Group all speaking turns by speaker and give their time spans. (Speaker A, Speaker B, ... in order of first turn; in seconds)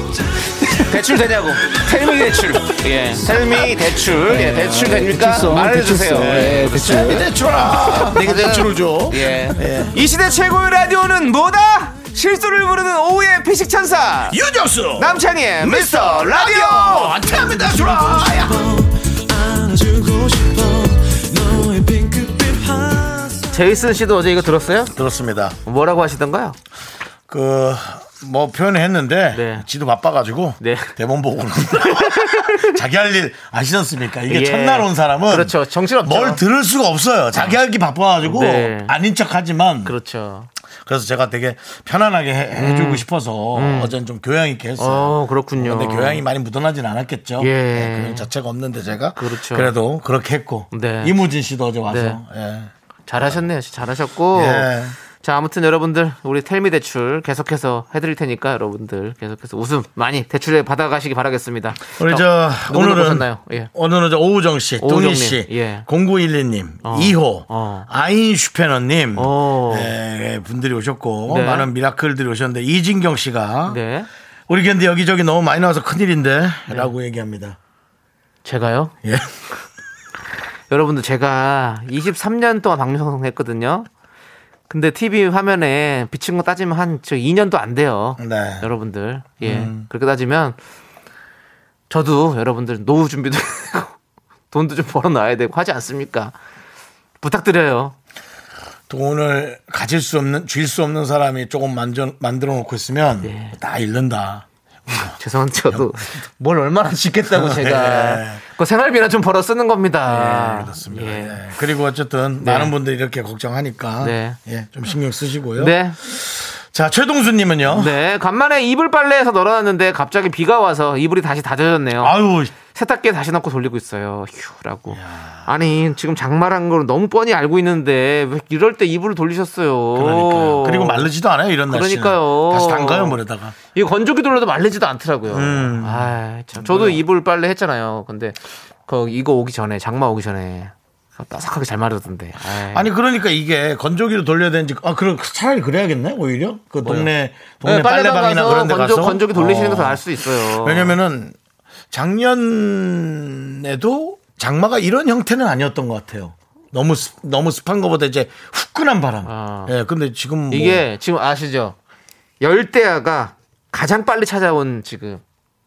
Speaker A: 0.7-14.4, 15.0-17.3, 23.3-24.9, 25.6-26.6, 29.3-29.7, 30.6-30.9, 31.7-32.8, 34.3-36.4, 38.2-38.9, 39.9-40.5, 42.6-43.9, 44.8-46.2, 47.4-48.3, 49.2-49.7, 50.7-51.1, 51.9-52.2, 53.1-63.7, 64.8-65.9, 66.8-67.9, 69.2-69.9, 71.3-71.7, 73.7-74.1, 78.4-79.0, 80.7-83.9, 84.7-90.6, 91.9-94.0, 94.5-96.3, 97.2-98.0, 103.2-103.6, 105.2-111.4, 112.4-112.7, 114.0-114.4, 115.6-116.0, 117.7-131.1, 131.7-133.2, 133.7-142.9, 146.8-147.1, 147.6-151.0, 159.2-159.7, 160.5-161.8, 162.4-165.2
Speaker B: 4.2-7.2, 19.5-23.2
Speaker C: 6.1-10.0, 14.3-18.8, 24.9-25.6, 27.3-40.0, 40.9-53.4, 54.3-55.0, 62.0-73.8, 74.5-77.6, 79.0-79.3, 88.2-88.7, 89.4-89.9, 98.9-105.2, 107.3-108.4, 110.1-118.0, 122.0-122.5, 124.9-125.5, 129.9-133.6, 135.3-137.0, 142.7-151.4, 151.9-160.9